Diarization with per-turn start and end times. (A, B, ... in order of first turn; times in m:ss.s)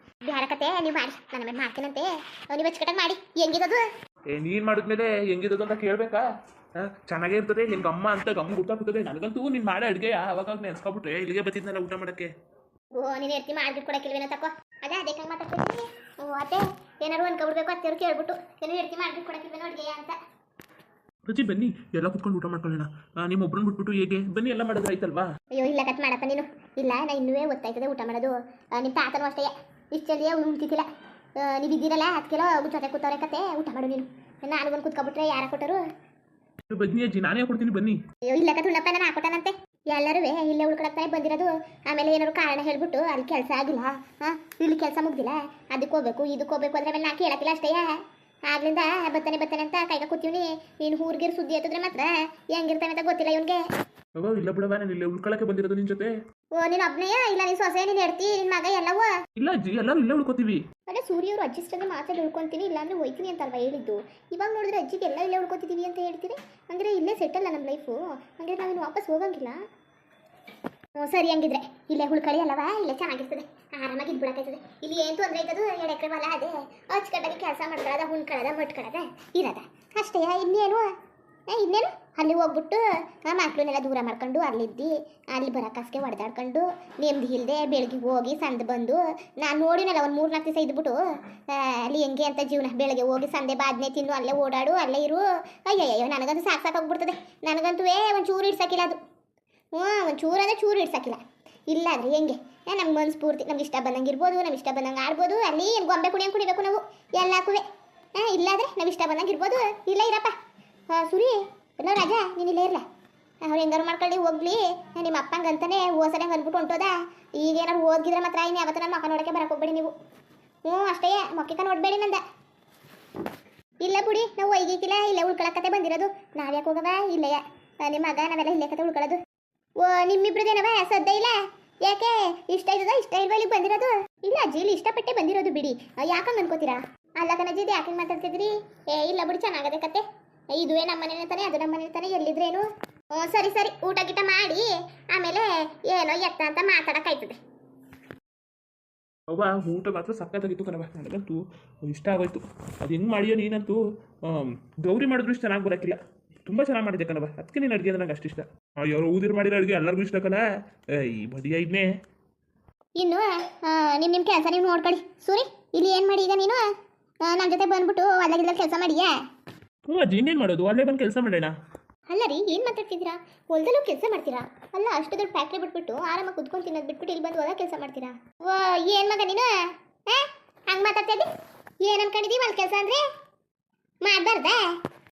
0:00.3-0:03.8 A
0:04.3-0:06.3 B
0:06.8-0:12.3 B
0:13.0-0:20.2 A
0:21.3-0:25.3 B
0:25.5-0:30.9 A
0:31.4-0:35.8 A
0:36.7-0:38.0 B
0:38.3-0:53.6 A
0:54.2-0:56.1 B
0:56.6-0:59.1 A
0:59.4-1:00.6 B
1:00.9-1:09.6 A
1:11.0-1:20.9 A
1:21.5-1:39.0 A
1:39.8-1:47.6 A
1:48.2-1:50.4 A
1:50.9-1:52.8 A
1:53.4-1:59.9 A
2:00.6-2:02.2 A
2:03.8-2:09.2 A
2:09.8-2:27.4 A
2:29.3-2:41.9 B
2:43.0-2:46.6 A
2:47.3-2:49.2 A
2:49.9-2:51.6 B
2:52.1-2:59.5 A
3:00.1-3:01.3 A
3:01.8-3:03.0 A
3:04.0-3:04.8 A